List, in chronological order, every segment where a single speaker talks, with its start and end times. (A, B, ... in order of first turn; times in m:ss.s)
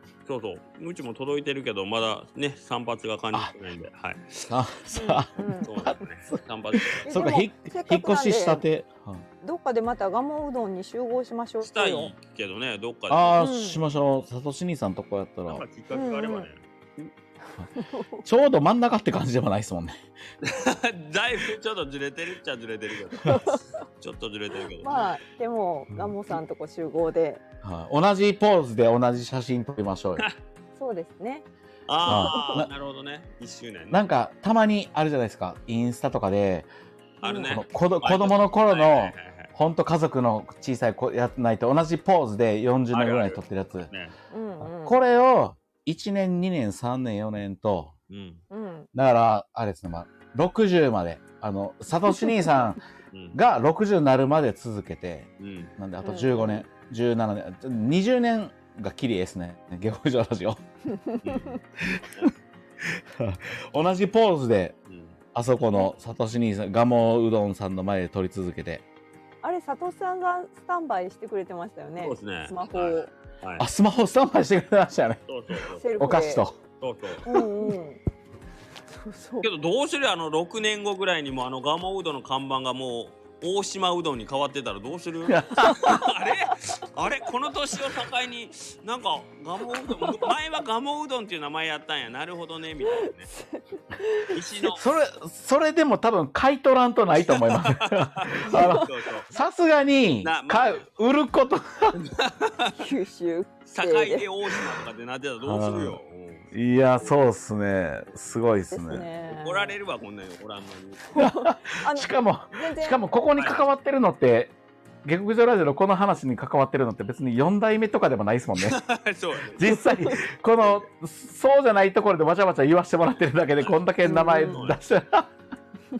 0:00.2-0:04.3 A
0:04.4-0:09.2 B
0:04.9-0:05.7 C
0:05.6-0:07.0 A
0:07.0-0:08.6 C
0:09.4-0:12.1 C
0:11.6-0:13.4 A
0:13.1-0:15.6 B
0:13.4-0:13.8 C
0:15.5-0:17.0 A
0:15.9-0:16.5 C
0:17.8-0:18.2 C
0:18.2-0:20.0 B
0:20.4-0:25.1 A
0:23.2-0:23.6 C
0:24.8-0:27.4 C
0:25.9-0:26.2 B
0:27.6-0:30.2 B
0:30.8-0:31.4 C
0:31.9-0:34.0 A
0:32.0-0:32.6 C
0:32.0-0:32.7 B
0:33.9-0:36.7 B
0:37.2-0:39.5 A
0:37.2-0:37.6 C
0:37.4-0:43.9 B
0:42.9-0:44.1 A
0:44.3-0:45.0 C
0:44.6-0:47.9 B
0:48.1-0:48.4 A
0:48.5-0:48.9 C
0:48.9-0:52.8 B
0:53.1-0:53.4 A
0:53.3-1:00.6 B
0:55.4-0:55.7 A
0:56.0-0:56.6 C
1:00.9-1:01.6 C
1:01.2-1:01.6 A
1:01.8-1:02.3 B
1:02.8-1:04.8 B
1:04.9-1:05.2 A
1:05.3-1:08.8 B
1:09.4-1:13.1 C
1:12.0-1:13.6 A
1:13.6-1:15.2 B
1:15.3-1:15.9 A
1:15.8-1:16.4 C
1:16.0-1:16.6 B
1:16.8-1:17.2 A
1:17.2-1:18.0 C
1:18.9-1:19.5 C
1:19.4-1:33.3 A
1:25.3-1:26.0 B
1:30.0-1:30.3 C
1:32.8-1:34.4 C
1:34.3-1:34.8 A
1:34.7-1:42.0 B
1:37.2-1:39.3 A
1:38.5-1:38.9 C
1:40.2-1:40.8 A
1:42.0-1:42.7 A
1:42.8-1:44.3 C
1:43.7-1:47.2 A
1:45.4-1:46.0 B
1:46.5-1:49.0 B
1:48.7-1:49.8 C
1:49.3-1:51.2 A
1:51.1-1:53.0 C
1:51.2-1:54.5 B
1:53.4-1:53.6 A
1:55.0-1:58.8 B
1:58.6-1:59.8 A
1:59.5-2:05.3 B
1:59.7-2:00.2 C
2:00.6-2:00.8 A
2:04.0-2:04.6 C
2:04.4-2:04.8 A